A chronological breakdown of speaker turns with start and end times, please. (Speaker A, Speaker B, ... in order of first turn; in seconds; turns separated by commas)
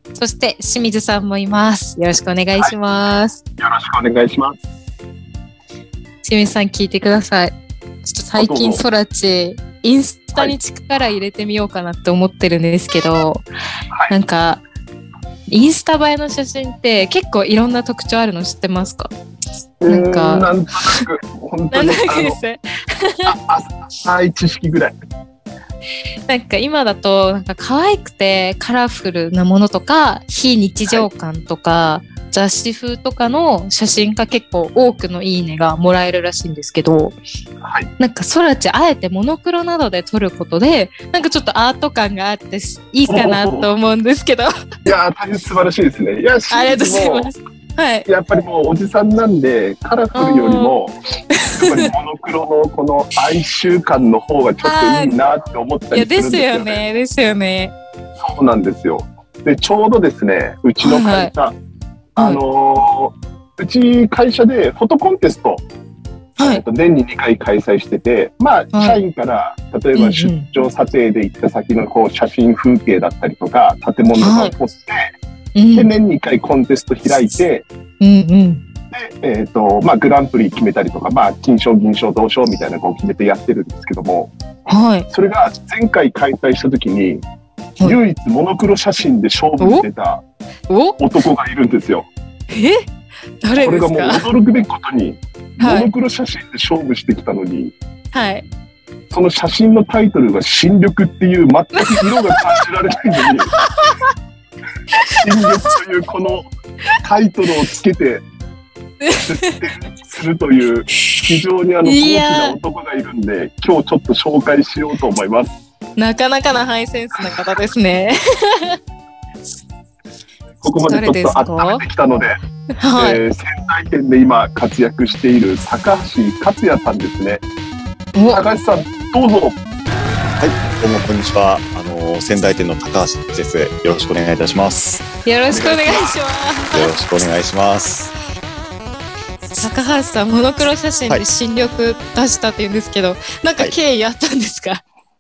Speaker A: 0.1-3.4, Speaker B: 3.6-4.6, Speaker A: 6.2-13.5, Speaker B: 8.4-8.8, Speaker A: 14.1-14.6, Speaker A: 15.5-19.1, Speaker B: 19.8-22.4, Speaker A: 19.9-21.0, Speaker A: 21.7-23.3, Speaker B: 23.3-24.9, Speaker A: 26.3-37.2, Speaker B: 37.6-37.9, Speaker A: 38.0-44.5, Speaker B: 43.1-43.7, Speaker B: 44.9-47.3, Speaker A: 46.5-48.1, Speaker B: 48.1-50.9, Speaker A: 50.1-50.7, Speaker A: 51.3-51.9, Speaker B: 51.5-56.8, Speaker A: 54.6-55.2, Speaker A: 55.9-57.7, Speaker B: 58.2-61.6, Speaker A: 60.8-61.3, Speaker B: 62.1-65.7, Speaker A: 66.4-66.6, Speaker B: 66.4-75.0, Speaker A: 68.7-69.0, Speaker A: 70.0-70.5, Speaker A: 74.2-74.5, Speaker A: 75.6-75.9, Speaker B: 75.8-77.7, Speaker A: 78.0-78.6, Speaker B: 78.9-84.3, Speaker A: 84.7-85.1, Speaker B: 85.1-87.2, Speaker B: 87.8-90.2, Speaker A: 89.6-89.8, Speaker A: 90.7-91.0, Speaker B: 91.0-92.1, Speaker A: 92.5-92.9, Speaker A: 93.4-94.3, Speaker B: 93.6-97.7, Speaker A: 95.6-95.9, Speaker A: 98.1-98.5, Speaker B: 99.1-103.6, Speaker A: 101.9-102.6, Speaker A: 103.6-104.0, Speaker A: 104.9-105.7, Speaker B: 105.1-106.5, Speaker B: 107.0-108.2, Speaker A: 109.0-109.6, Speaker B: 109.2-115.5, Speaker A: 111.8-112.6, Speaker A: 116.0-118.8, Speaker B: 120.6-122.4, Speaker A: 120.9-121.8, Speaker A: 122.8-123.2, Speaker B: 123.0-127.4, Speaker A: 128.2-128.4, Speaker B: 128.3-129.6, Speaker C: 130.4-135.1, Speaker A: 135.2-136.9, Speaker B: 135.5-136.2, Speaker C: 136.7-138.1, Speaker A: 139.6-144.8